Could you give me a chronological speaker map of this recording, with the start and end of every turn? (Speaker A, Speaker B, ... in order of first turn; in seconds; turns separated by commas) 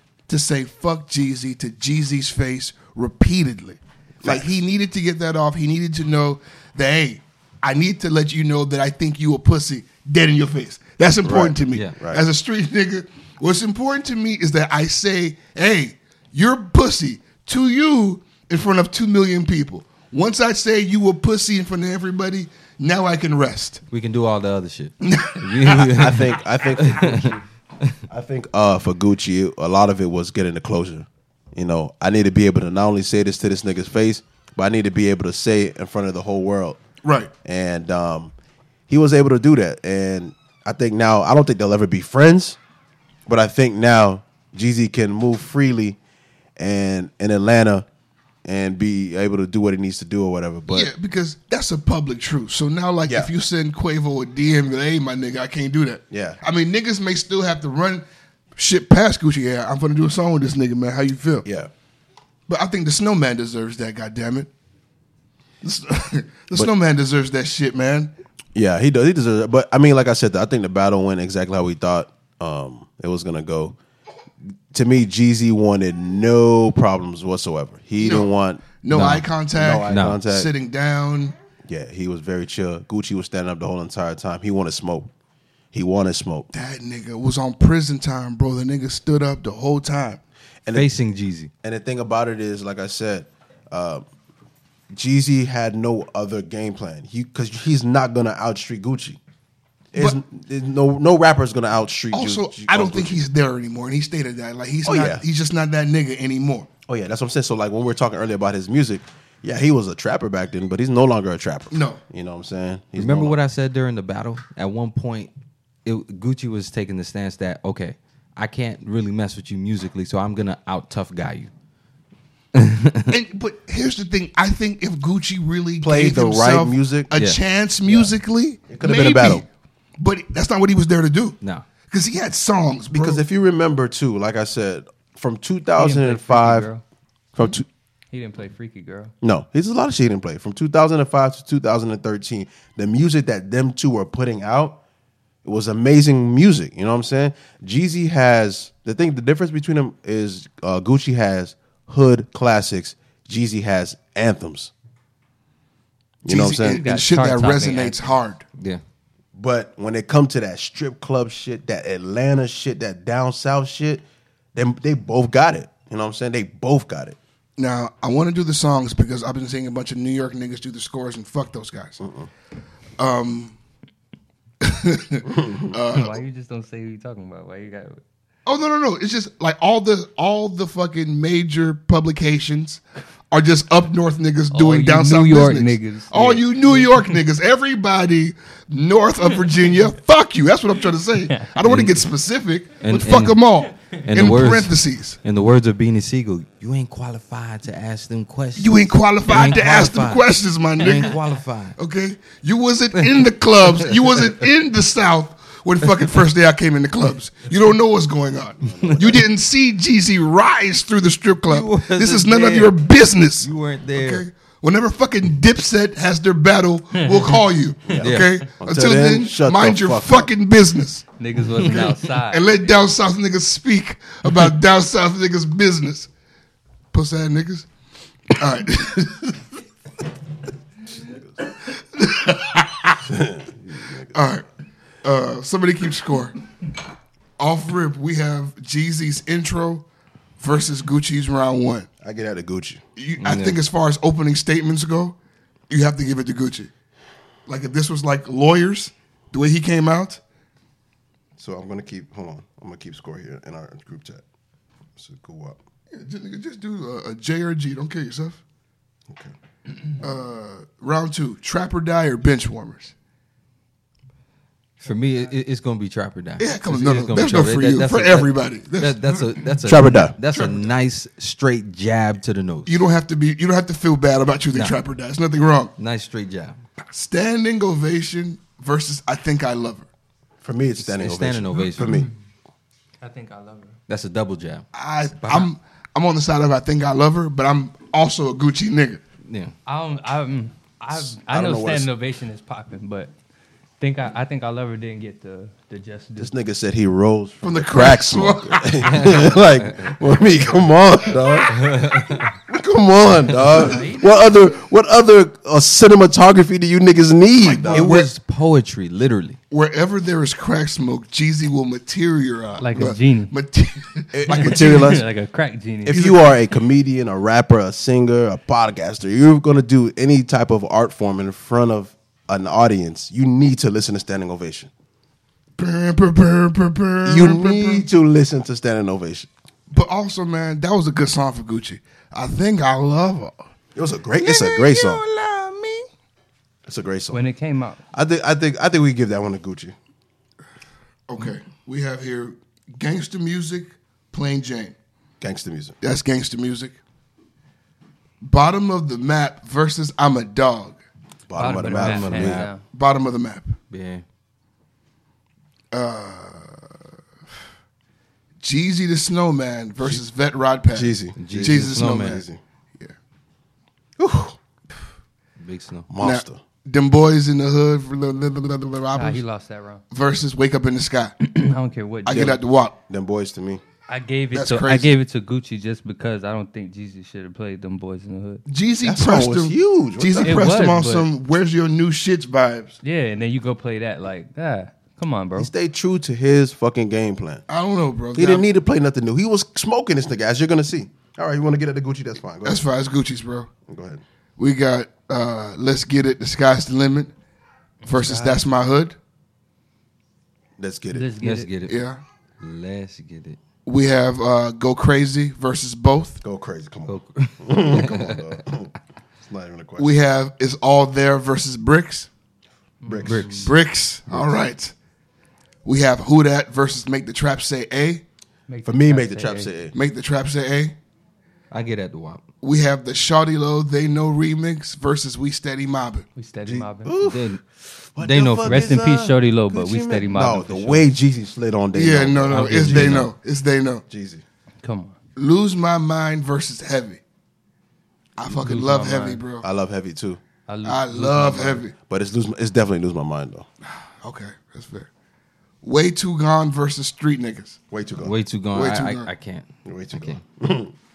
Speaker A: 0.3-23.8, Speaker B: 4.2-4.5, Speaker B: 11.2-12.2, Speaker C: 23.9-27.9, Speaker A: 25.0-25.9, Speaker B: 25.9-27.4, Speaker B: 28.1-36.8, Speaker A: 37.0-37.3, Speaker B: 37.4-38.3, Speaker B: 38.9-42.6, Speaker B: 43.3-46.0, Speaker B: 46.6-47.9, Speaker B: 48.5-50.9, Speaker A: 50.7-58.0, Speaker B: 56.1-56.4, Speaker A: 58.6-61.5, Speaker B: 61.4-61.7, Speaker A: 62.5-64.5, Speaker A: 65.6-68.1, Speaker B: 68.5-73.8, Speaker B: 74.7-80.5, Speaker A: 78.0-81.3, Speaker C: 78.9-79.2, Speaker C: 79.9-80.2, Speaker B: 81.7-85.1, Speaker B: 85.7-86.5, Speaker A: 86.5-90.2, Speaker C: 90.7-91.5, Speaker B: 91.6-94.1, Speaker B: 94.9-99.2, Speaker B: 99.9-103.2, Speaker A: 102.1-106.7, Speaker B: 104.8-105.2, Speaker B: 106.9-113.4, Speaker A: 111.7-112.0, Speaker C: 113.0-115.3, Speaker C: 115.8-121.5, Speaker C: 122.5-123.1, Speaker A: 123.1-129.5, Speaker B: 125.8-127.1, Speaker C: 127.1-127.4, Speaker B: 128.7-129.4, Speaker A: 130.0-131.4, Speaker C: 131.4-131.7, Speaker A: 131.9-133.2, Speaker B: 132.9-136.7, Speaker D: 135.8-136.8, Speaker B: 137.3-137.7, Speaker D: 138.1-139.1, Speaker B: 139.2-144.8, Speaker B: 145.4-154.7, Speaker B: 156.2-156.8, Speaker A: 156.2-158.4, Speaker D: 156.8-158.0, Speaker B: 159.3-164.0, Speaker B: 164.5-167.2, Speaker A: 167.6-172.0, Speaker B: 172.0-172.3, Speaker A: 173.0-173.5, Speaker A: 174.6-176.2, Speaker B: 175.2-175.7, Speaker D: 175.9-178.0, Speaker A: 178.5-195.2, Speaker D: 184.5-187.1, Speaker C: 191.6-192.0, Speaker C: 192.8-193.4, Speaker C: 194.1-201.8, Speaker A: 198.6-201.2, Speaker A: 201.8-221.1, Speaker C: 203.0-203.2, Speaker C: 203.9-204.3, Speaker B: 208.6-209.2, Speaker C: 208.9-209.1, Speaker C: 211.5-212.8, Speaker C: 213.4-214.2, Speaker D: 217.0-217.4, Speaker B: 217.9-220.3, Speaker C: 218.0-218.4, Speaker D: 221.2-222.7, Speaker A: 221.6-226.1, Speaker A: 226.9-227.7, Speaker A: 228.3-229.4, Speaker B: 231.0-231.3, Speaker A: 231.8-233.0, Speaker B: 233.1-234.1, Speaker A: 234.1-234.4, Speaker A: 235.0-236.3, Speaker A: 237.4-239.8, Speaker A: 240.4-241.9, Speaker B: 242.0-242.8, Speaker A: 243.0-245.2, Speaker C: 243.2-243.6, Speaker A: 245.7-246.7, Speaker A: 247.5-250.2, Speaker B: 251.4-254.2, Speaker B: 255.0-255.6, Speaker A: 255.9-258.4, Speaker B: 259.1-259.3, Speaker A: 260.0-262.9, Speaker C: 264.8-272.8, Speaker A: 266.4-269.5, Speaker B: 269.7-270.1, Speaker A: 270.3-270.7, Speaker A: 272.7-275.7, Speaker C: 274.5-274.8, Speaker C: 275.8-276.6, Speaker A: 276.9-279.9, Speaker B: 280.4-282.1, Speaker C: 280.8-282.1, Speaker D: 283.0-283.8, Speaker C: 283.9-284.7, Speaker A: 284.7-289.0, Speaker C: 285.2-285.5, Speaker C: 289.2-289.6, Speaker D: 289.7-293.1, Speaker B: 290.9-291.9, Speaker D: 293.8-296.3, Speaker B: 296.2-301.6, Speaker A: 297.4-299.0, Speaker C: 298.9-299.7, Speaker C: 301.5-302.3, Speaker B: 302.5-307.9, Speaker D: 303.4-304.4, Speaker A: 307.4-308.1, Speaker C: 307.7-309.4, Speaker A: 309.5-315.0, Speaker D: 312.6-313.3, Speaker B: 314.1-315.0, Speaker D: 314.3-316.4, Speaker B: 315.9-324.7, Speaker A: 325.6-327.9, Speaker B: 327.1-329.3, Speaker A: 329.7-333.4, Speaker B: 333.8-335.0, Speaker A: 334.2-335.9, Speaker B: 336.7-337.2, Speaker D: 337.1-337.8, Speaker B: 337.9-339.8, Speaker A: 341.1-344.8, Speaker B: 345.2-345.8, Speaker A: 345.8-346.8, Speaker A: 348.2-350.8, Speaker B: 351.3-352.5, Speaker D: 351.4-352.6, Speaker C: 351.6-352.5, Speaker A: 352.7-353.6, Speaker C: 353.7-354.0, Speaker A: 355.7-356.6, Speaker A: 358.4-362.2, Speaker B: 360.7-362.4, Speaker C: 361.2-362.2, Speaker B: 364.0-364.4, Speaker C: 365.4-365.9, Speaker B: 365.9-366.4, Speaker A: 366.0-369.2, Speaker D: 368.9-369.8, Speaker A: 369.9-371.3, Speaker D: 371.2-372.4, Speaker A: 372.1-372.8, Speaker B: 372.9-373.6, Speaker D: 373.9-378.4, Speaker A: 374.3-374.9, Speaker A: 378.5-382.8, Speaker B: 378.8-380.5, Speaker D: 380.2-381.1, Speaker D: 382.8-385.5, Speaker B: 385.4-387.4, Speaker A: 387.5-388.5, Speaker B: 388.2-392.6, Speaker A: 392.4-393.5, Speaker B: 393.7-394.0, Speaker A: 394.4-397.1, Speaker D: 397.8-398.4, Speaker A: 397.9-399.0, Speaker B: 400.6-401.1, Speaker D: 400.9-401.5, Speaker C: 401.2-401.8, Speaker A: 401.7-402.0, Speaker C: 402.4-403.4, Speaker A: 403.7-406.2, Speaker B: 406.2-408.7, Speaker C: 406.9-408.4, Speaker B: 409.2-409.9, Speaker A: 409.8-412.1, Speaker D: 412.8-413.4, Speaker B: 412.9-413.5, Speaker C: 413.0-413.5, Speaker A: 413.3-414.7, Speaker B: 414.1-414.4, Speaker A: 415.6-418.0, Speaker D: 418.5-419.5, Speaker B: 418.6-419.8, Speaker A: 419.7-420.8, Speaker C: 421.5-422.2, Speaker A: 422.4-426.1, Speaker D: 426.2-426.9, Speaker B: 426.4-433.1, Speaker C: 427.0-427.4, Speaker C: 428.0-428.6, Speaker D: 428.4-430.9, Speaker A: 431.7-433.8, Speaker C: 432.3-433.1, Speaker B: 433.9-434.2, Speaker D: 434.6-435.0, Speaker A: 435.2-437.0, Speaker A: 438.2-439.4, Speaker D: 438.3-439.2, Speaker B: 439.4-440.2, Speaker D: 440.5-441.6, Speaker A: 440.6-441.7, Speaker B: 441.9-443.5, Speaker A: 444.0-444.9, Speaker A: 445.6-447.6, Speaker B: 447.7-448.1, Speaker C: 448.0-450.2, Speaker A: 448.5-449.1, Speaker B: 449.6-450.7